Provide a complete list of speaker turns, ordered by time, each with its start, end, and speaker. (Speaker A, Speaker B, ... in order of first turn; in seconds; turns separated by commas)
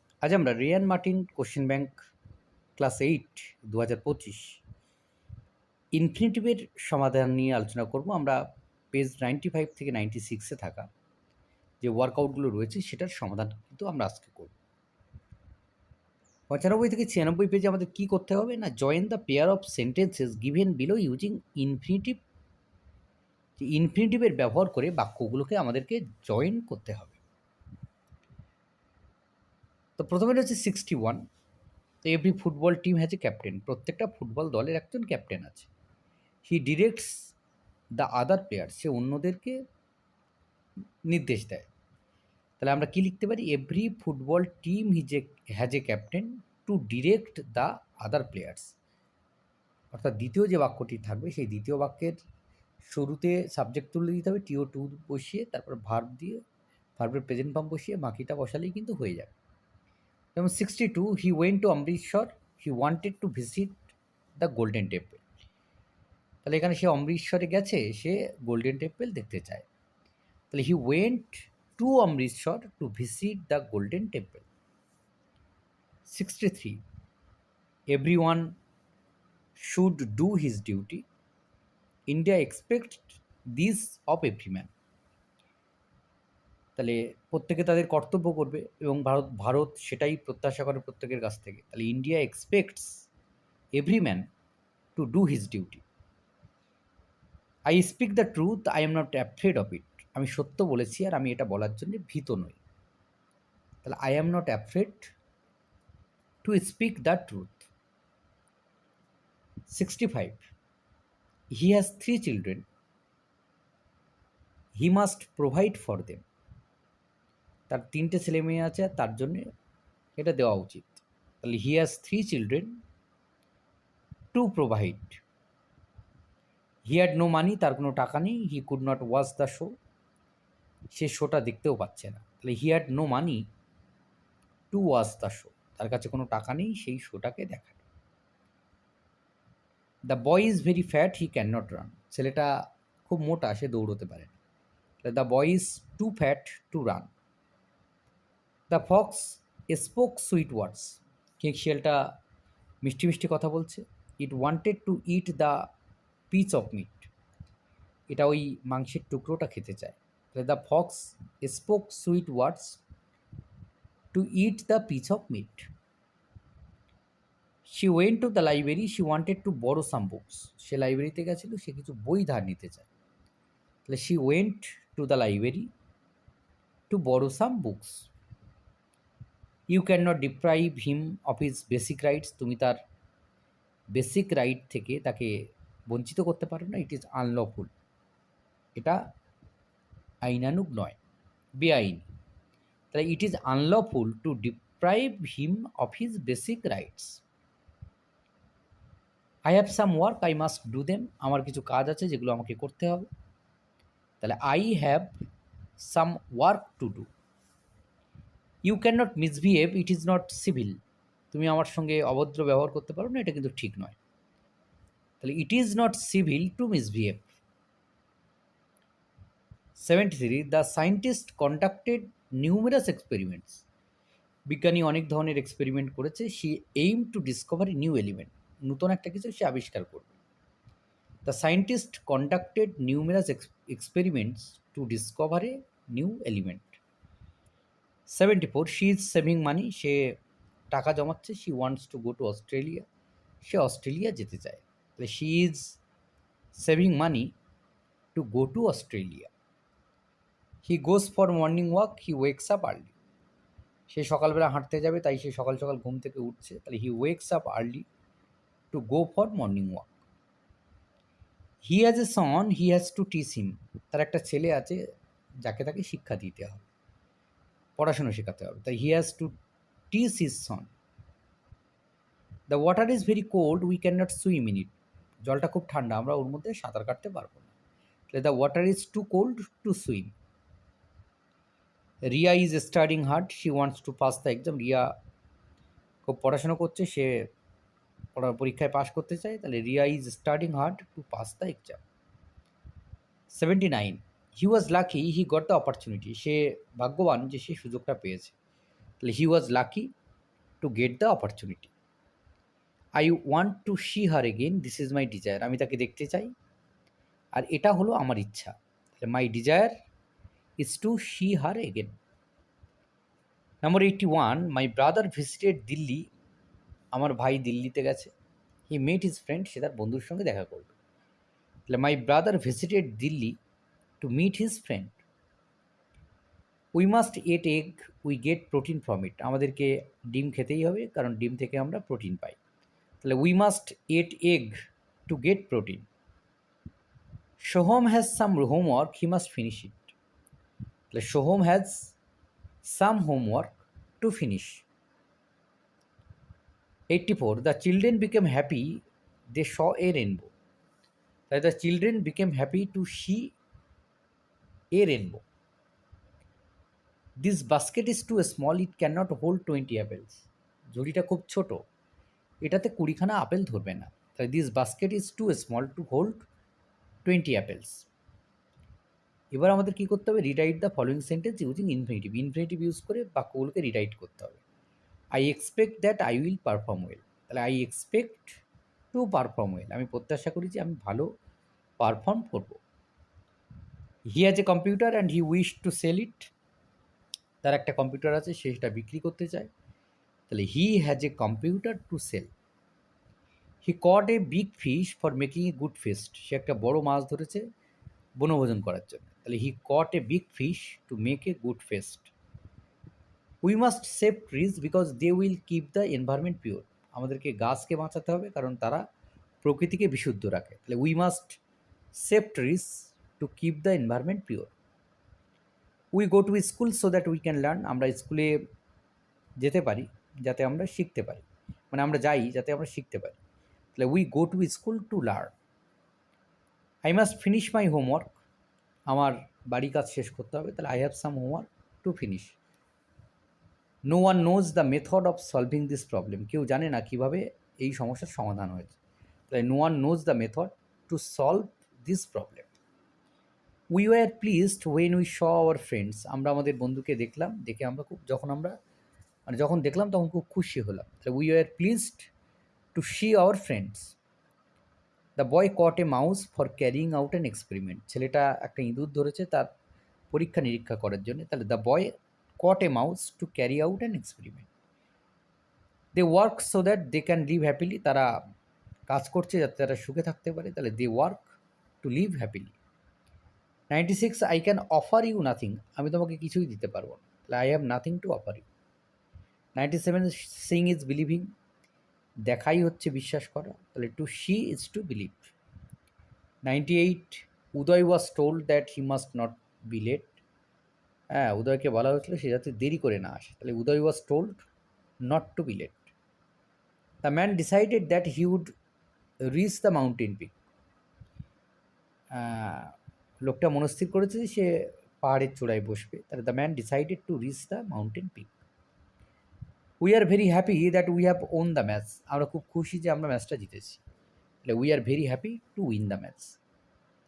Speaker A: 0.2-2.0, Speaker A: 2.8-4.6, Speaker A: 5.9-10.9, Speaker A: 11.8-14.6, Speaker A: 16.5-22.2, Speaker A: 23.6-27.2, Speaker A: 30.0-31.2, Speaker A: 32.0-35.7, Speaker A: 36.5-37.3, Speaker A: 37.9-39.6, Speaker A: 41.0-41.7, Speaker A: 42.6-48.7, Speaker A: 49.9-52.2, Speaker A: 52.8-56.4, Speaker A: 57.0-59.3, Speaker A: 60.4-63.8, Speaker A: 64.4-65.2, Speaker A: 66.5-69.7, Speaker A: 70.5-74.5, Speaker A: 76.1-76.8, Speaker A: 77.9-78.5, Speaker A: 79.6-81.0, Speaker A: 82.1-84.7, Speaker A: 86.8-93.0, Speaker A: 93.8-94.3, Speaker A: 95.0-95.8, Speaker A: 97.7-102.6, Speaker A: 103.8-105.1, Speaker A: 106.4-107.7, Speaker A: 109.7-110.4, Speaker A: 111.5-112.7, Speaker A: 114.8-116.2, Speaker A: 117.7-119.5, Speaker A: 120.2-122.8, Speaker A: 124.3-125.2, Speaker A: 126.9-129.7, Speaker A: 130.9-133.4, Speaker A: 134.7-137.8, Speaker A: 140.1-142.5, Speaker A: 143.1-144.3, Speaker A: 145.0-147.1, Speaker A: 148.7-152.2, Speaker A: 152.8-155.7, Speaker A: 156.3-157.1, Speaker A: 158.1-162.8, Speaker A: 164.1-165.7, Speaker A: 167.7-172.9, Speaker A: 173.9-175.7, Speaker A: 176.9-178.1, Speaker A: 179.7-182.8, Speaker A: 183.9-187.7, Speaker A: 190.2-191.0, Speaker A: 191.6-192.1, Speaker A: 192.9-197.2, Speaker A: 199.4-203.1, Speaker A: 204.2-205.2, Speaker A: 205.8-207.1, Speaker A: 208.6-210.8, Speaker A: 211.3-214.0, Speaker A: 215.2-217.3, Speaker A: 219.8-223.7, Speaker A: 224.5-230.1, Speaker A: 231.2-236.8, Speaker A: 238.1-240.2, Speaker A: 240.7-242.9, Speaker A: 243.4-245.8, Speaker A: 246.5-247.3, Speaker A: 248.2-249.3, Speaker A: 250.6-252.9, Speaker A: 253.9-257.9, Speaker A: 258.7-259.9, Speaker A: 261.6-264.8, Speaker A: 265.4-266.7, Speaker A: 267.8-269.3, Speaker A: 269.9-270.7, Speaker A: 272.5-277.5, Speaker A: 278.1-280.1, Speaker A: 282.1-284.9, Speaker A: 286.0-287.3, Speaker A: 288.1-291.8, Speaker A: 293.3-298.4, Speaker A: 299.0-299.9, Speaker A: 300.6-301.7, Speaker A: 303.0-306.3, Speaker A: 307.3-309.7, Speaker A: 310.6-312.0, Speaker A: 313.6-316.1, Speaker A: 316.9-318.1, Speaker A: 318.7-320.7, Speaker A: 321.7-323.4, Speaker A: 324.0-325.0, Speaker A: 326.8-332.4, Speaker A: 333.0-335.9, Speaker A: 337.4-339.9, Speaker A: 340.9-341.9, Speaker A: 342.6-344.6, Speaker A: 346.9-350.3, Speaker A: 351.3-353.4, Speaker A: 354.7-355.2, Speaker A: 357.2-361.6, Speaker A: 362.4-366.2, Speaker A: 367.1-367.9, Speaker A: 369.3-374.4, Speaker A: 375.1-378.4, Speaker A: 378.9-381.1, Speaker A: 381.8-382.6, Speaker A: 384.1-386.3, Speaker A: 387.4-389.5, Speaker A: 390.3-392.3, Speaker A: 393.6-397.5, Speaker A: 398.2-402.1, Speaker A: 403.4-408.8, Speaker A: 409.4-411.4, Speaker A: 411.9-414.5, Speaker A: 415.9-418.5, Speaker A: 419.4-423.2, Speaker A: 423.8-425.3, Speaker A: 426.8-428.2, Speaker A: 428.9-432.4, Speaker A: 433.9-438.8, Speaker A: 439.3-442.5, Speaker A: 443.7-448.6, Speaker A: 449.3-452.1, Speaker A: 452.8-454.0, Speaker A: 455.2-459.5, Speaker A: 460.1-464.5, Speaker A: 465.9-468.1, Speaker A: 468.9-472.6, Speaker A: 473.7-478.4, Speaker A: 479.6-481.3, Speaker A: 482.3-485.3, Speaker A: 486.4-490.2, Speaker A: 491.1-494.5, Speaker A: 495.0-495.9, Speaker A: 497.0-498.5, Speaker A: 499.2-500.3, Speaker A: 502.1-508.3, Speaker A: 509.8-513.8, Speaker A: 514.5-516.4